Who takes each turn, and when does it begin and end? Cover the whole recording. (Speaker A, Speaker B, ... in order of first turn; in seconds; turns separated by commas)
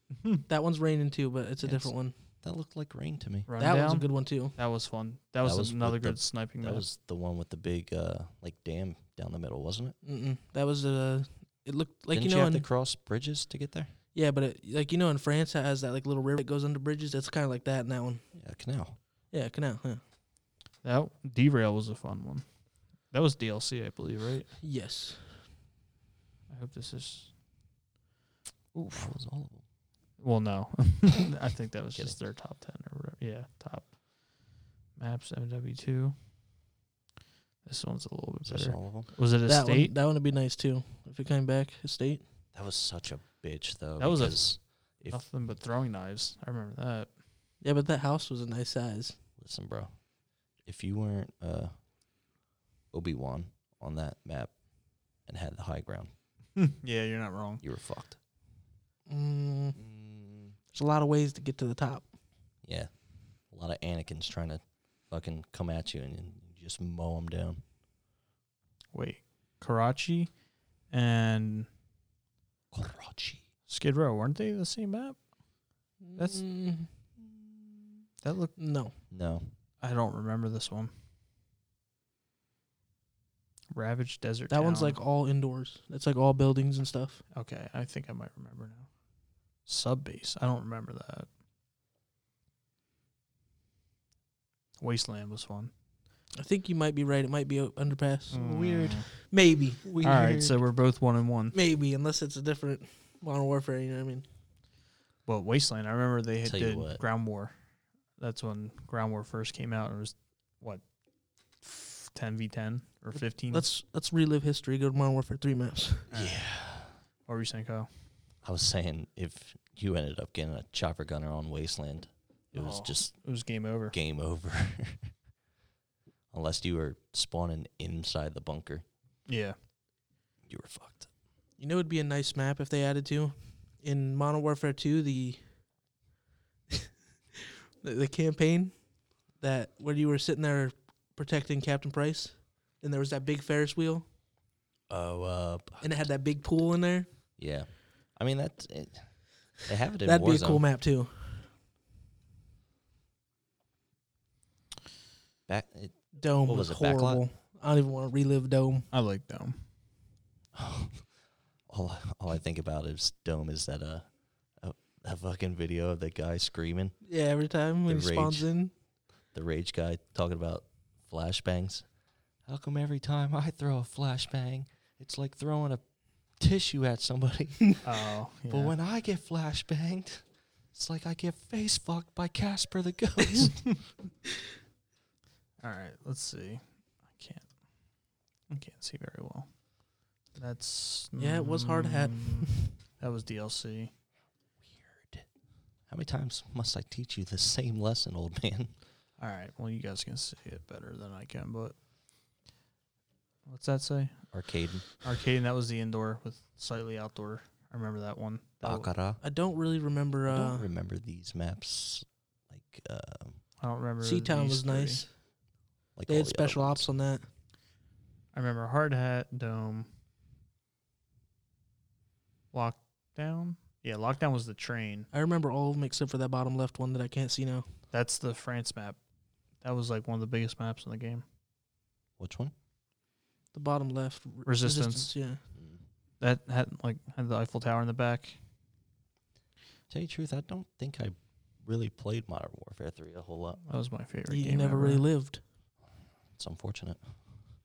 Speaker A: 0.1-0.4, Speaker B: 0.5-2.1, Speaker C: 1.6-3.5, Speaker A: 3.5-6.8, Speaker B: 3.6-4.6, Speaker C: 5.4-10.0, Speaker B: 10.0-12.7, Speaker C: 12.1-13.9, Speaker B: 14.1-18.3, Speaker C: 18.3-19.0, Speaker B: 19.3-20.0, Speaker A: 20.8-22.5, Speaker A: 23.1-24.5, Speaker B: 24.6-25.5, Speaker A: 26.5-27.3, Speaker A: 28.7-29.1, Speaker C: 28.9-29.6, Speaker A: 30.2-34.0, Speaker A: 35.0-36.2, Speaker A: 37.6-39.9, Speaker C: 38.5-39.1, Speaker B: 39.5-42.2, Speaker C: 42.5-45.2, Speaker A: 44.0-47.1, Speaker B: 47.6-49.2, Speaker C: 49.4-51.9, Speaker C: 52.9-56.1, Speaker A: 56.6-57.6, Speaker C: 57.6-58.2, Speaker B: 59.1-59.8, Speaker C: 59.8-60.6, Speaker B: 60.7-62.1, Speaker C: 62.6-67.6, Speaker A: 68.9-70.3, Speaker A: 70.9-71.7, Speaker C: 72.7-73.4, Speaker A: 73.7-75.2, Speaker B: 76.0-76.9, Speaker A: 76.2-76.5, Speaker A: 78.2-78.6, Speaker B: 78.6-79.0, Speaker C: 79.1-79.5, Speaker A: 79.8-80.9, Speaker A: 83.7-85.0, Speaker B: 84.5-87.2, Speaker A: 87.3-88.9, Speaker A: 89.7-91.3, Speaker A: 94.8-95.7, Speaker B: 96.4-98.4, Speaker A: 98.3-99.1, Speaker C: 98.3-99.2, Speaker B: 99.2-99.9, Speaker C: 99.8-100.6, Speaker A: 100.0-101.6, Speaker B: 101.5-104.3, Speaker A: 105.3-107.5, Speaker C: 106.4-107.0, Speaker A: 108.2-110.8, Speaker A: 111.6-113.7, Speaker B: 113.5-116.1, Speaker A: 116.1-116.4, Speaker C: 116.1-117.0, Speaker A: 117.3-117.9, Speaker C: 118.4-123.2, Speaker A: 122.5-123.9, Speaker C: 123.9-125.2, Speaker C: 126.3-128.8, Speaker A: 129.3-129.6, Speaker C: 130.5-131.1, Speaker B: 131.6-135.4, Speaker B: 137.4-144.1, Speaker C: 144.9-146.1, Speaker B: 145.8-147.1, Speaker C: 147.4-150.7, Speaker B: 150.0-151.5, Speaker C: 155.5-157.2, Speaker B: 156.2-158.9, Speaker A: 158.9-159.6, Speaker C: 160.5-167.0, Speaker B: 167.1-168.7, Speaker C: 167.9-168.5, Speaker C: 169.3-171.9, Speaker C: 172.4-177.8, Speaker A: 177.8-178.8, Speaker C: 178.4-183.8, Speaker A: 185.6-187.5, Speaker A: 188.5-189.7, Speaker A: 190.3-193.9, Speaker B: 191.2-192.7, Speaker C: 194.6-195.3, Speaker C: 195.9-198.8, Speaker A: 199.2-201.8, Speaker A: 203.5-204.3, Speaker C: 204.3-204.9, Speaker A: 205.0-208.9, Speaker C: 208.6-209.2, Speaker B: 209.2-210.7, Speaker C: 210.3-213.4, Speaker A: 213.6-215.1, Speaker B: 214.0-215.2, Speaker C: 216.0-216.9, Speaker B: 216.1-217.3, Speaker A: 218.3-219.9, Speaker A: 222.5-225.1, Speaker B: 225.1-227.7, Speaker A: 227.9-229.0, Speaker A: 229.6-231.2, Speaker C: 232.2-232.5, Speaker B: 233.5-235.4, Speaker A: 234.4-235.1, Speaker C: 235.6-235.8, Speaker A: 236.2-238.4, Speaker C: 239.9-243.6, Speaker A: 243.6-245.1, Speaker B: 244.3-245.4, Speaker C: 246.3-247.4